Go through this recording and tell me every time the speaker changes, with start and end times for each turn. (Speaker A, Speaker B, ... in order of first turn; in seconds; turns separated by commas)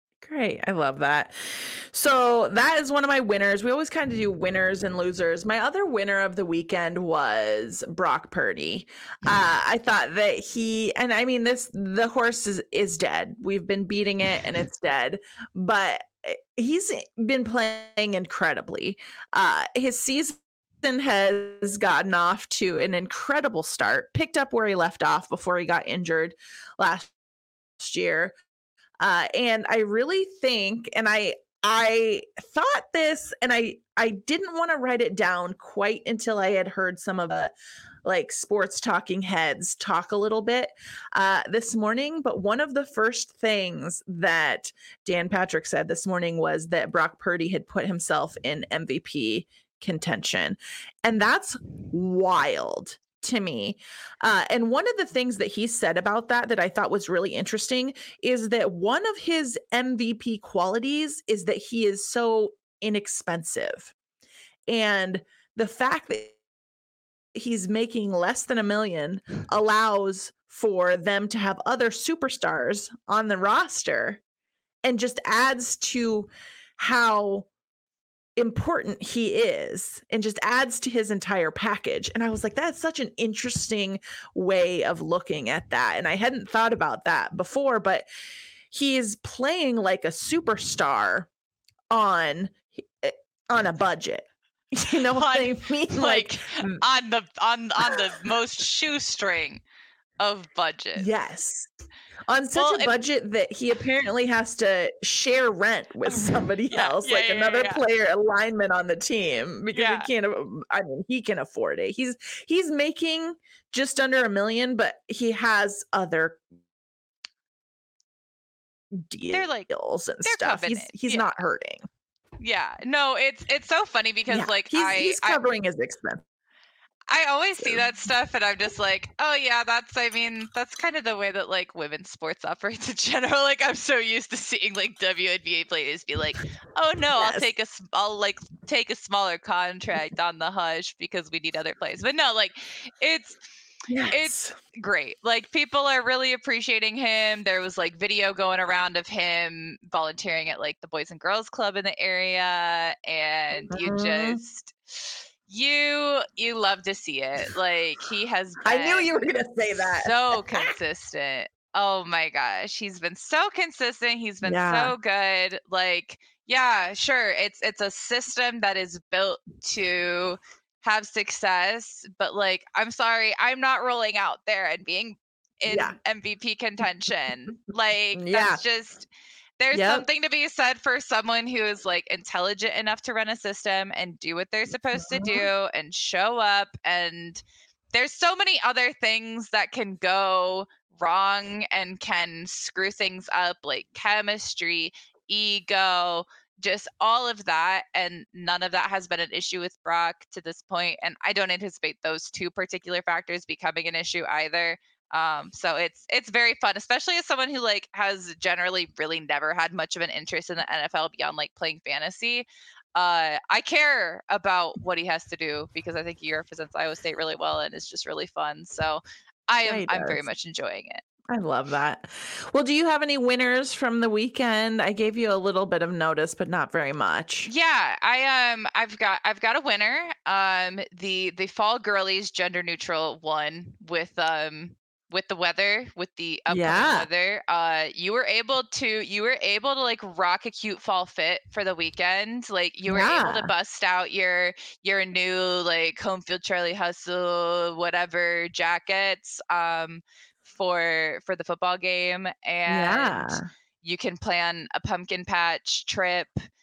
Speaker A: 0.2-27.1, Speaker A: 27.8-28.3, Speaker A: 29.0-37.5, Speaker A: 38.0-63.9, Speaker A: 64.7-66.4, Speaker A: 67.3-74.2, Speaker A: 74.8-77.5, Speaker A: 78.4-88.0, Speaker A: 88.7-91.3, Speaker A: 91.9-96.8, Speaker B: 95.1-99.6, Speaker B: 100.2-101.1, Speaker A: 101.0-101.7, Speaker A: 102.3-116.4, Speaker B: 102.5-102.9, Speaker B: 106.1-107.8, Speaker B: 109.7-110.1, Speaker A: 118.9-121.8, Speaker B: 119.3-119.7, Speaker B: 120.2-121.2, Speaker B: 122.4-125.4, Speaker A: 124.3-126.2, Speaker B: 127.1-143.4, Speaker A: 137.2-137.5, Speaker A: 143.9-144.5, Speaker B: 144.1-159.1, Speaker A: 153.7-154.4, Speaker A: 158.6-160.7, Speaker B: 159.9-179.1, Speaker A: 164.4-164.9, Speaker A: 175.6-175.9, Speaker A: 178.1-178.6, Speaker B: 179.6-221.0, Speaker A: 179.7-180.1, Speaker A: 184.9-185.5, Speaker A: 219.6-220.2, Speaker A: 221.3-227.5, Speaker B: 227.4-256.4, Speaker A: 236.5-237.1, Speaker A: 242.9-243.5, Speaker A: 252.7-253.5